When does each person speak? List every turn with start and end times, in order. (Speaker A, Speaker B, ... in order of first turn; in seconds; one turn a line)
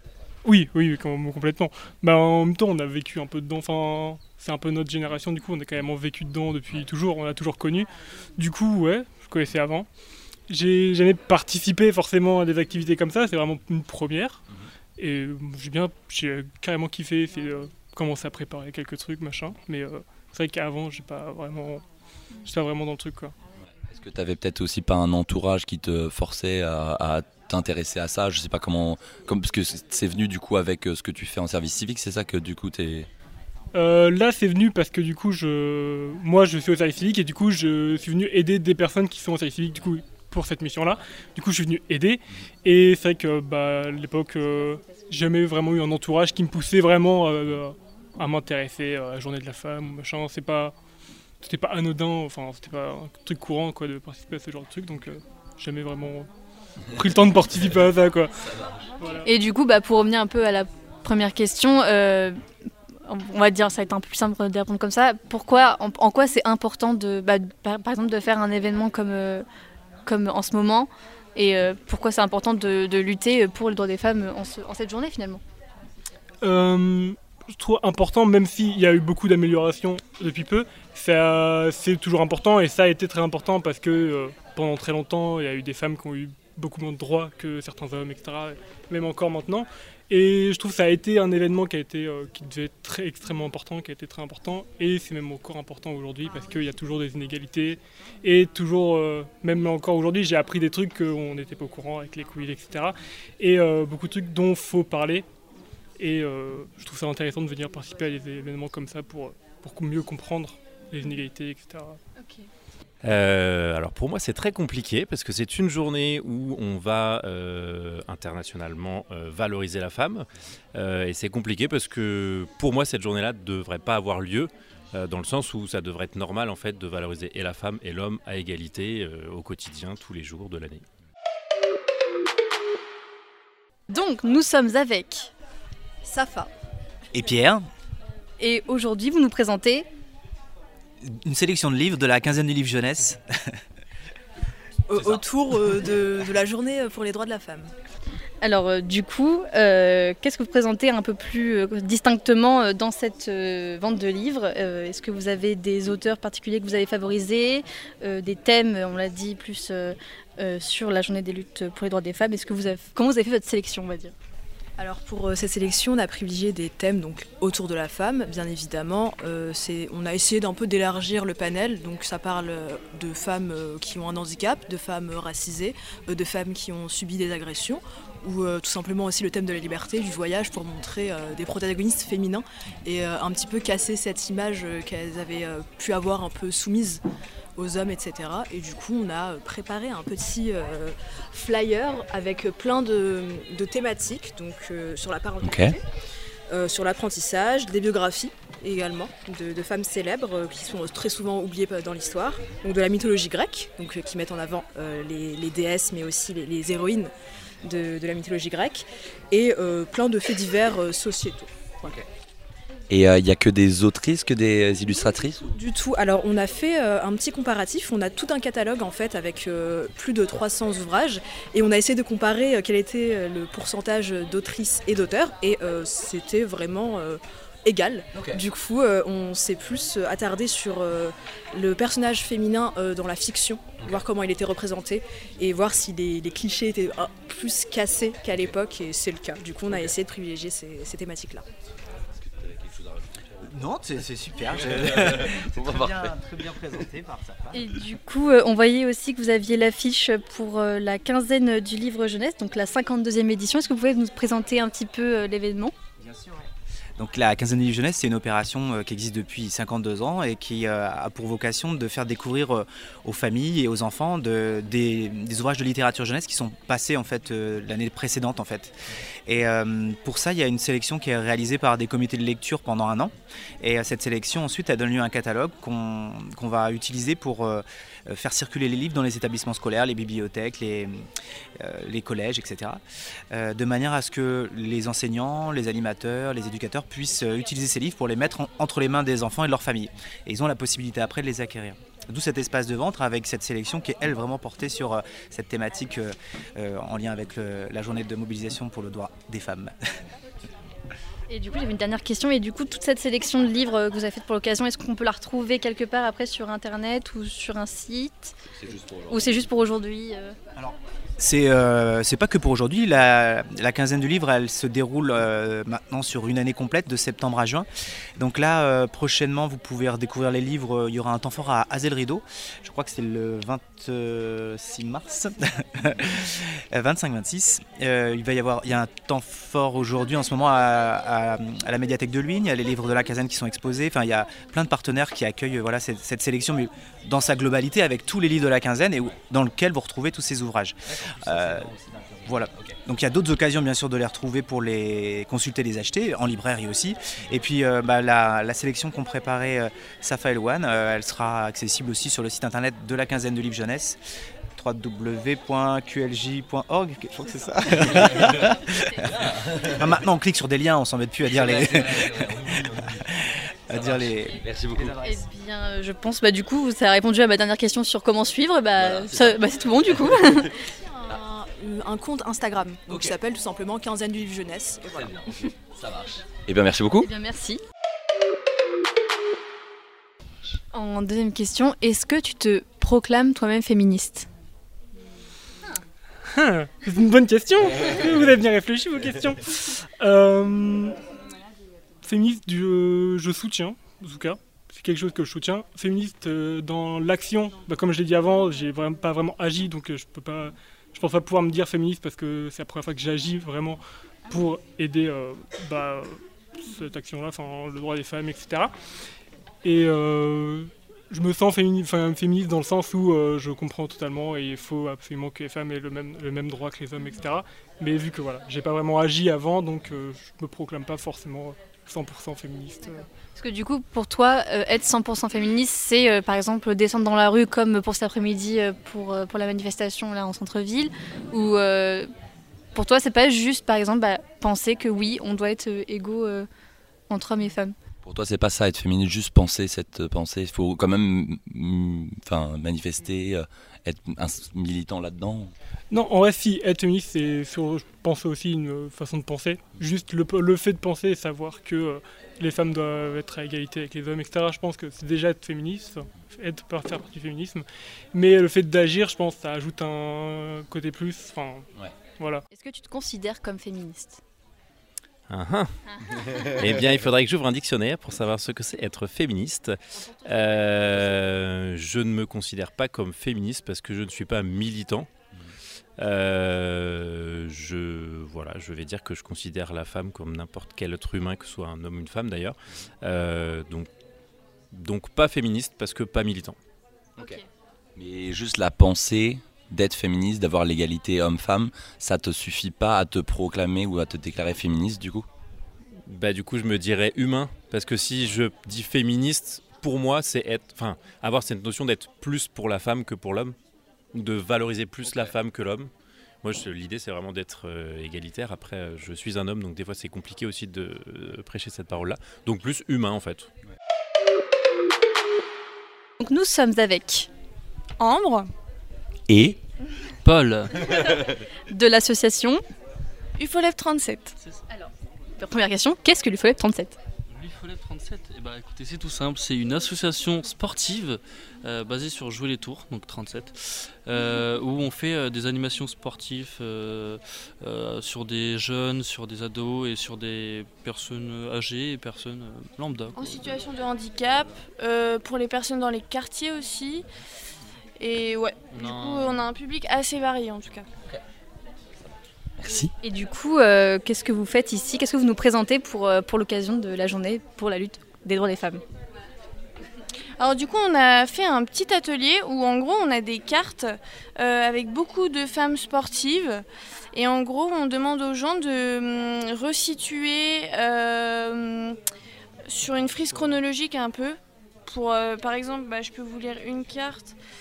Speaker A: 0.5-9.9
Speaker A: 10.5-14.4
Speaker A: 15.0-21.8
Speaker A: 22.4-23.3
Speaker B: 23.9-33.1
Speaker A: 33.7-50.7
Speaker A: 51.4-56.3
Speaker A: 56.9-58.3
Speaker A: 59.0-59.3
Speaker C: 59.2-62.4
Speaker C: 63.1-69.5
Speaker C: 70.1-75.4
Speaker A: 76.4-105.3
Speaker A: 106.0-112.0
Speaker D: 113.0-130.8
Speaker C: 133.9-135.3
Speaker C: 136.1-136.5
Speaker E: 137.1-137.6
Speaker C: 138.4-139.9
Speaker E: 141.1-143.2
Speaker F: 144.9-147.7
Speaker C: 148.4-164.1
Speaker F: 164.8-187.0
Speaker F: 187.6-195.8
Speaker B: 195.4-195.8
Speaker F: 196.5-211.5
Speaker B: 212.9-215.5
Speaker F: 215.5-241.4
Speaker B: 228.1-228.4
Speaker B: 242.2-243.7
Speaker E: 243.5-247.6
Speaker B: 244.5-246.2
Speaker C: 247.5-255.7
Speaker E: 256.0-268.7
Speaker E: 269.3-280.9
Speaker E: 281.6-282.8
Speaker E: 283.3-299.7
Speaker C: 301.3-308.4
Speaker B: 308.5-309.5
Speaker C: 309.1-310.4
Speaker E: 310.6-317.7
Speaker E: 318.2-341.7
Speaker B: 340.9-342.8
Speaker E: 342.2-354.0
Speaker E: 354.6-359.2
Speaker B: 357.8-358.3
Speaker B: 359.2-359.9
Speaker E: 359.8-362.4
Speaker B: 361.3-363.0
Speaker E: 363.7-365.1
Speaker B: 363.7-365.2
Speaker C: 365.0-370.5
Speaker B: 368.8-370.4
Speaker F: 370.9-375.1
Speaker B: 372.9-373.1
Speaker B: 374.9-377.1
Speaker C: 377.0-377.6
Speaker C: 380.7-384.3
Speaker A: 386.3-391.0
Speaker A: 392.0-408.7
Speaker A: 409.6-423.1
Speaker C: 423.4-432.1
Speaker C: 432.8-436.5
Speaker C: 437.1-437.8
Speaker B: 438.0-445.5
Speaker A: 445.9-461.7
Speaker C: 462.5-464.2
Speaker D: 465.3-465.7
Speaker D: 466.6-475.1
Speaker D: 476.0-483.9
Speaker D: 484.7-486.6
Speaker B: 488.0-495.3
Speaker D: 496.1-503.6
Speaker D: 504.1-505.9
Speaker B: 505.0-505.3
Speaker D: 506.4-513.5
Speaker C: 516.2-517.3
Speaker G: 518.0-518.5
Speaker B: 519.3-519.6
Speaker H: 520.2-520.7
Speaker C: 521.7-522.6
Speaker G: 523.4-524.4
Speaker C: 525.4-527.0
Speaker H: 527.3-543.7
Speaker G: 543.1-547.0
Speaker G: 548.0-550.9
Speaker H: 548.7-549.5
Speaker B: 552.6-552.9
Speaker C: 553.0-558.8
Speaker G: 560.4-572.0
Speaker G: 572.7-577.3